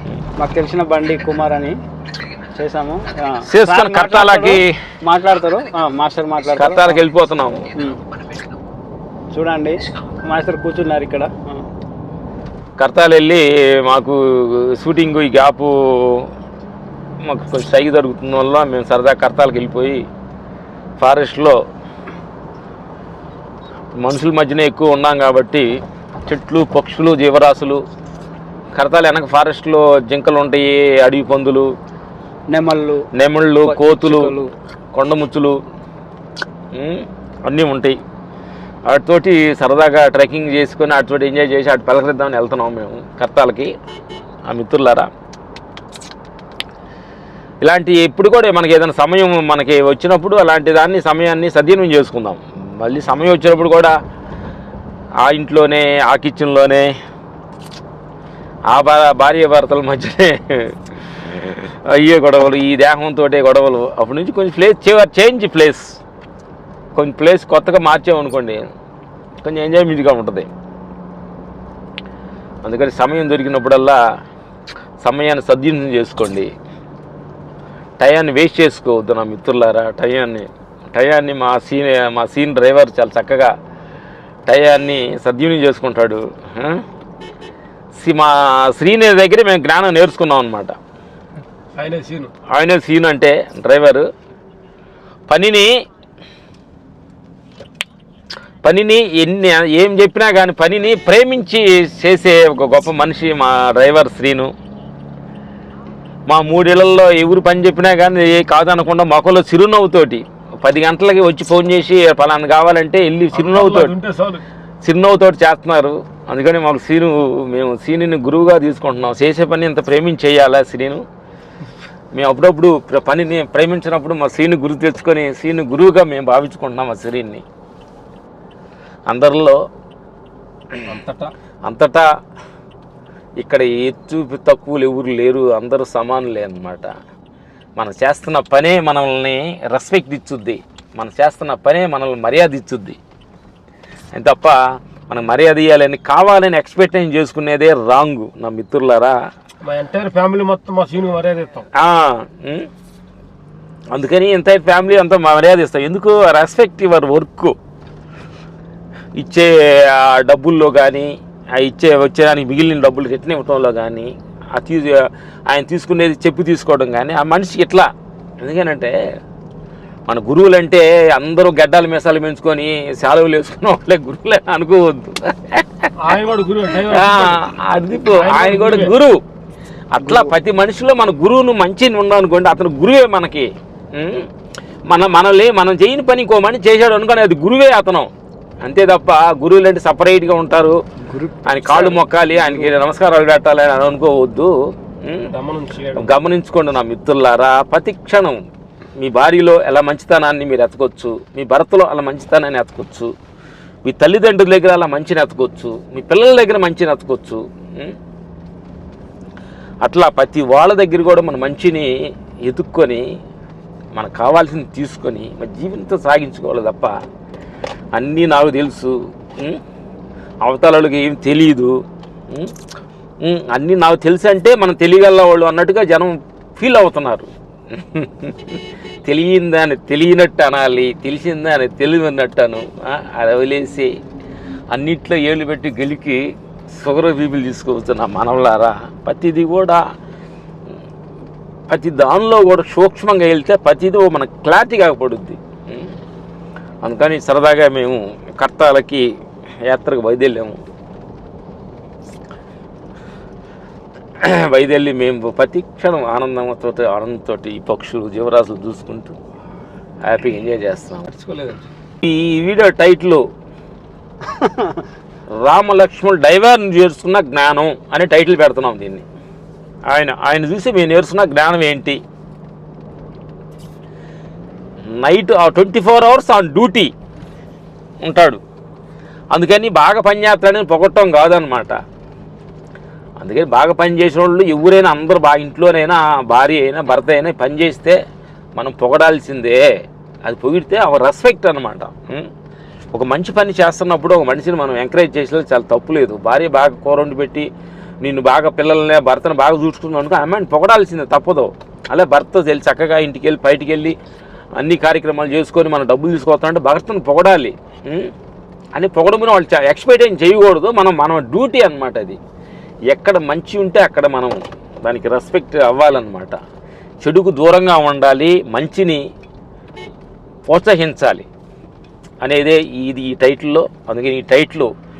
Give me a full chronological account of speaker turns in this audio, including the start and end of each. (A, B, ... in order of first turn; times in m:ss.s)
0:00.4-0:01.7 A
0:02.6-0:07.0 A
0:03.5-0:04.7 B
0:06.6-0:07.7 B
0:07.7-0:08.0 A
0:09.3-0:11.6 A
0:12.8-0:16.3 B
0:17.2-0:20.0 B
0:21.0-0:21.6 B
0:24.0-0:25.6 B
0:26.2-0:27.8 B
0:28.7-0:31.7 B
0:32.5-0:33.0 A
0:33.2-0:34.3 B
0:33.6-0:34.5 A
0:34.9-0:35.6 B
0:36.7-0:38.0 B
0:38.9-0:43.7 B
0:44.5-0:45.1 B
0:47.6-0:53.9 B
0:55.2-0:56.9 B
0:58.7-1:05.9 B
1:06.9-1:08.6 B
1:09.4-1:10.5 B
1:12.6-1:14.0 B
1:15.0-1:16.5 B
1:18.0-1:23.5 B
1:24.5-1:26.8 B
1:28.0-1:30.8 B
1:31.8-1:32.3 C
1:32.5-1:34.0 B
1:35.3-1:35.7 B
1:38.6-1:44.5 B
1:46.3-1:53.9 B
1:53.3-1:54.4 C
1:54.8-2:01.0 B
2:02.1-2:07.4 B
2:09.1-2:09.6 B
2:10.8-2:11.3 C
2:11.6-2:12.0 B
2:13.4-2:16.9 B
2:17.8-2:23.0 B
2:24.1-2:24.6 B
2:25.1-2:29.1 B
2:29.6-2:31.7 C
2:31.8-2:32.7 B
2:33.9-2:37.5 B
2:39.2-2:47.9 B
2:48.4-2:48.9 B
2:50.1-2:55.9 B
2:56.0-2:57.5 C
2:56.8-2:59.2 B
2:58.1-2:58.9 C
2:59.9-3:04.3 B
3:00.0-3:00.3 A
3:04.9-3:08.1 B
3:08.6-3:10.8 B
3:11.0-3:11.6 A
3:11.4-3:14.5 B
3:11.7-3:12.7 C
3:15.0-3:15.3 B
3:15.3-3:16.1 C
3:15.9-3:18.4 B
3:19.0-3:23.1 B
3:23.8-3:27.9 B
3:29.8-3:31.9 B
3:32.4-3:33.0 B
3:33.9-3:36.9 B
3:37.9-3:39.6 B
3:40.4-3:41.7 B
3:43.2-3:53.9 B
3:54.7-3:56.2 B
3:56.7-3:59.8 B
4:01.7-4:05.9 B
4:06.8-4:09.0 B
4:09.6-4:10.6 B
4:14.2-4:19.2 B
4:20.0-4:21.1 B
4:21.1-4:21.7 C
4:22.0-4:23.2 B
4:24.3-4:24.8 A
4:25.4-4:29.0 B
4:29.9-4:32.0 B
4:34.9-4:36.9 B
4:38.0-4:38.4 B
4:39.3-4:41.7 B
4:43.2-4:48.0 B
4:48.6-4:49.6 B
4:50.2-4:52.3 B
4:52.9-4:57.5 B
4:58.0-5:04.0 B
5:04.6-5:08.1 B
5:08.7-5:12.2 B
5:12.9-5:16.4 B
5:17.0-5:19.0 B
5:20.5-5:21.2 B
5:22.2-5:24.7 B